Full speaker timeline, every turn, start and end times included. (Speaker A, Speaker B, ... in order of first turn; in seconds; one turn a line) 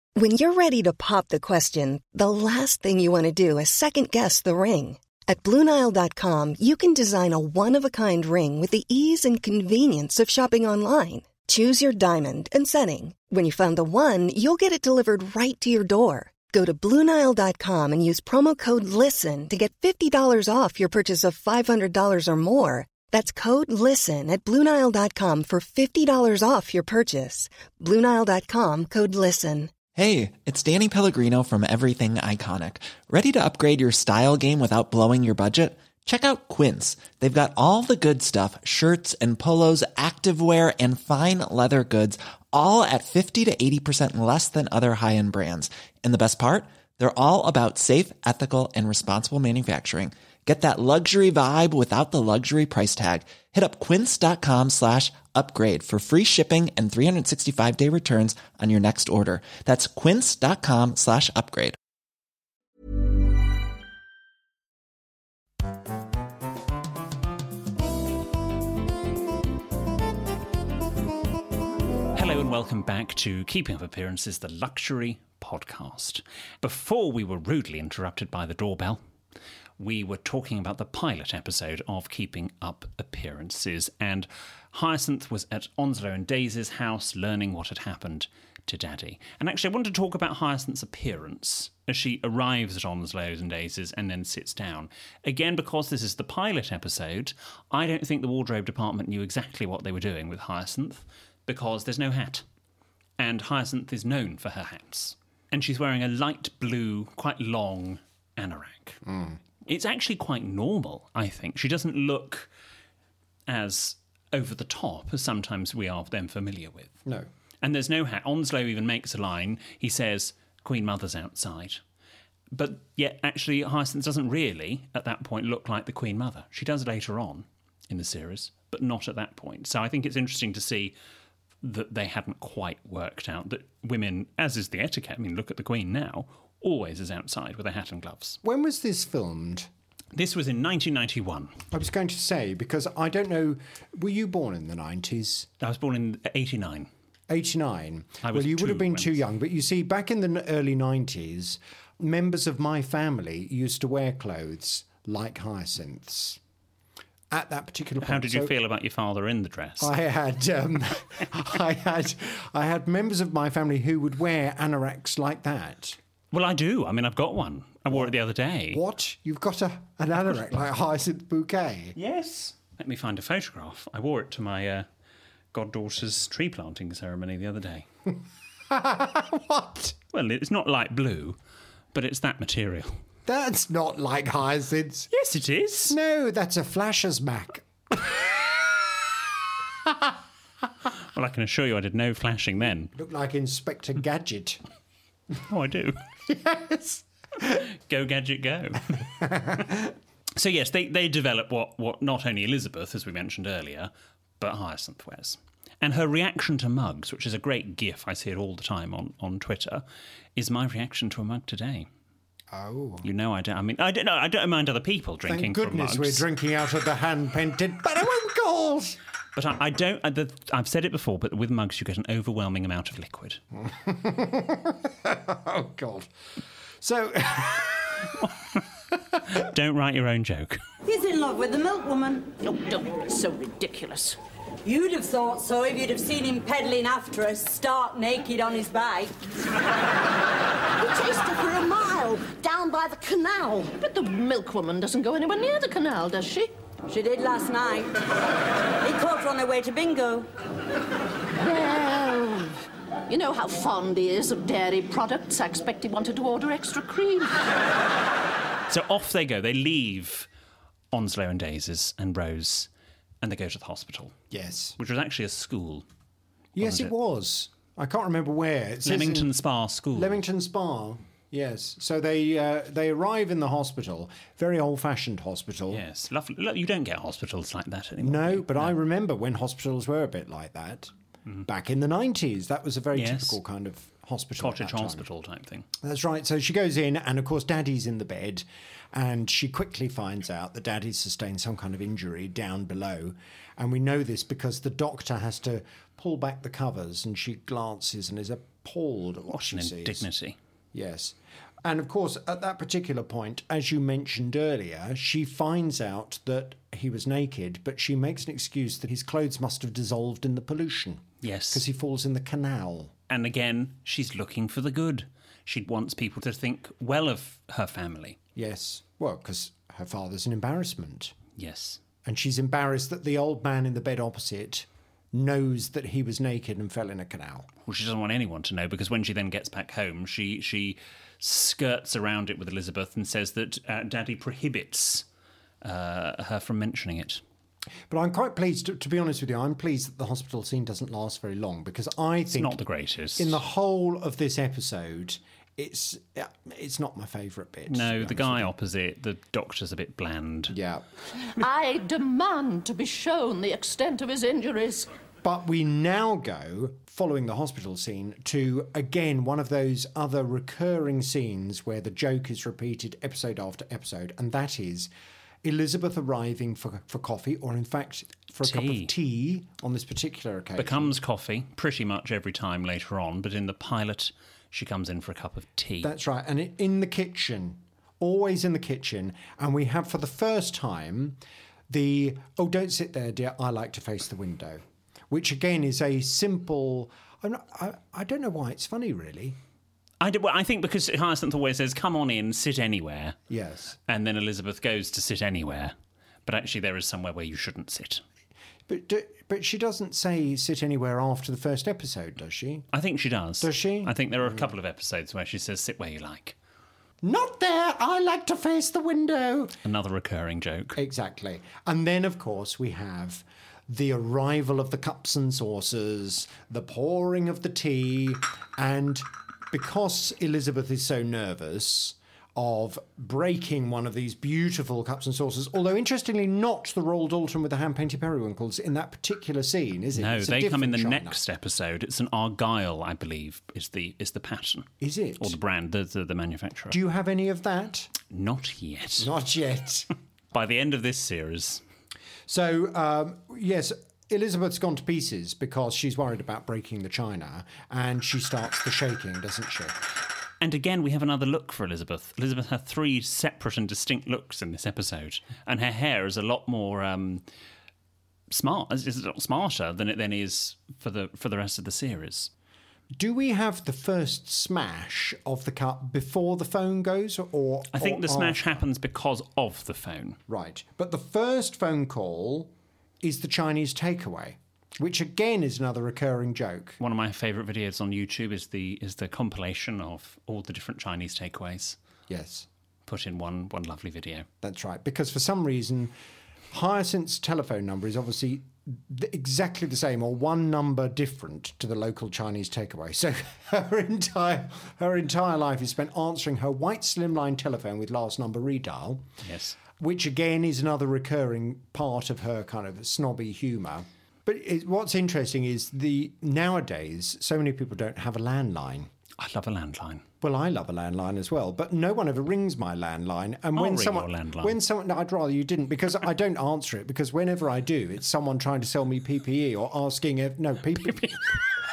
Speaker A: 0.1-29.8
Speaker B: 29.9-61.8
Speaker C: 72.1-79.0
Speaker C: 79.8-102.4
Speaker C: 103.2-109.0
Speaker D: 109.0-109.4
Speaker C: 109.7-112.5
Speaker C: 113.5-117.0
Speaker C: 117.6-121.8
Speaker C: 122.5-130.9
Speaker C: 131.6-138.4
Speaker D: 138.4-139.7
Speaker C: 140.1-141.6
Speaker D: 141.7-145.5
Speaker C: 145.6-146.9
Speaker D: 147.3-156.4
Speaker C: 148.2-149.2
Speaker D: 157.3-158.5
Speaker C: 158.0-159.9
Speaker D: 159.8-166.0
Speaker C: 166.3-168.8
Speaker D: 167.9-168.1
Speaker D: 168.7-171.9
Speaker C: 171.9-174.9
Speaker C: 175.5-177.9
Speaker D: 178.7-179.9
Speaker C: 180.1-181.4
Speaker C: 181.9-183.0
Speaker D: 183.2-185.1
Speaker C: 185.1-185.9
Speaker D: 185.9-189.2
Speaker C: 191.1-192.9
Speaker D: 192.9-194.6
Speaker C: 195.5-196.0
Speaker D: 196.3-197.5
Speaker C: 197.4-199.1
Speaker D: 199.2-199.9
Speaker C: 200.3-209.8
Speaker C: 210.3-211.9
Speaker D: 212.5-213.0
Speaker C: 213.0-216.2
Speaker D: 215.2-219.0
Speaker C: 219.3-223.4
Speaker D: 223.6-226.1
Speaker D: 226.8-228.2
Speaker C: 228.2-228.6
Speaker C: 229.3-230.6
Speaker E: 230.8-232.3
Speaker F: 232.4-234.2
Speaker E: 234.6-239.1
Speaker F: 241.0-241.2
Speaker E: 241.1-243.7
Speaker F: 243.7-246.5
Speaker E: 246.9-247.9
Speaker E: 248.8-250.3
Speaker F: 251.4-252.5
Speaker F: 253.1-257.4
Speaker C: 258.7-260.3
Speaker C: 260.9-262.7
Speaker C: 263.2-264.1
Speaker D: 264.3-264.8
Speaker C: 264.8-265.9
Speaker D: 266.6-269.3
Speaker C: 266.6-266.9
Speaker C: 268.8-270.2
Speaker D: 269.9-275.8
Speaker C: 275.7-278.7
Speaker D: 278.0-280.9
Speaker D: 281.4-285.1
Speaker C: 282.9-283.4
Speaker C: 284.4-285.7
Speaker D: 285.8-300.1
Speaker C: 299.3-300.4
Speaker D: 300.7-312.9
Speaker C: 311.2-311.6
Speaker C: 313.1-318.2
Speaker D: 318.3-321.1
Speaker C: 321.3-321.8
Speaker D: 322.0-327.5
Speaker C: 327.6-335.1
Speaker C: 335.6-337.2
Speaker D: 337.9-342.6
Speaker C: 342.3-343.4
Speaker D: 343.2-348.5
Speaker C: 347.7-350.5
Speaker D: 350.5-350.8
Speaker F: 351.3-354.9
Speaker D: 355.2-364.9
Speaker D: 365.4-370.9
Speaker C: 368.4-368.9
Speaker C: 370.6-375.9
Speaker D: 375.8-381.2
Speaker D: 381.7-389.4
Speaker C: 390.0-393.2
Speaker D: 393.3-393.8
Speaker C: 393.9-395.7
Speaker C: 396.2-398.0
Speaker D: 398.7-402.7
Speaker C: 402.7-406.4
Speaker D: 403.4-404.5
Speaker D: 407.0-409.6
Speaker C: 409.6-410.8
Speaker D: 410.7-431.2
Speaker C: 429.9-436.8
Speaker D: 434.8-435.4
Speaker D: 436.7-437.9
Speaker C: 438.1-439.1
Speaker D: 439.0-439.9
Speaker C: 440.3-441.6
Speaker D: 442.3-449.8
Speaker C: 450.4-457.2
Speaker C: 458.3-462.3
Speaker D: 462.9-468.6
Speaker C: 467.7-470.2
Speaker D: 470.3-476.8
Speaker C: 476.8-481.8
Speaker D: 482.1-482.5
Speaker C: 482.9-484.3
Speaker D: 484.4-485.9
Speaker D: 486.5-499.1
Speaker C: 499.2-499.6
Speaker D: 499.7-508.9
Speaker C: 509.2-510.0
Speaker D: 510.2-521.4
Speaker C: 513.5-514.6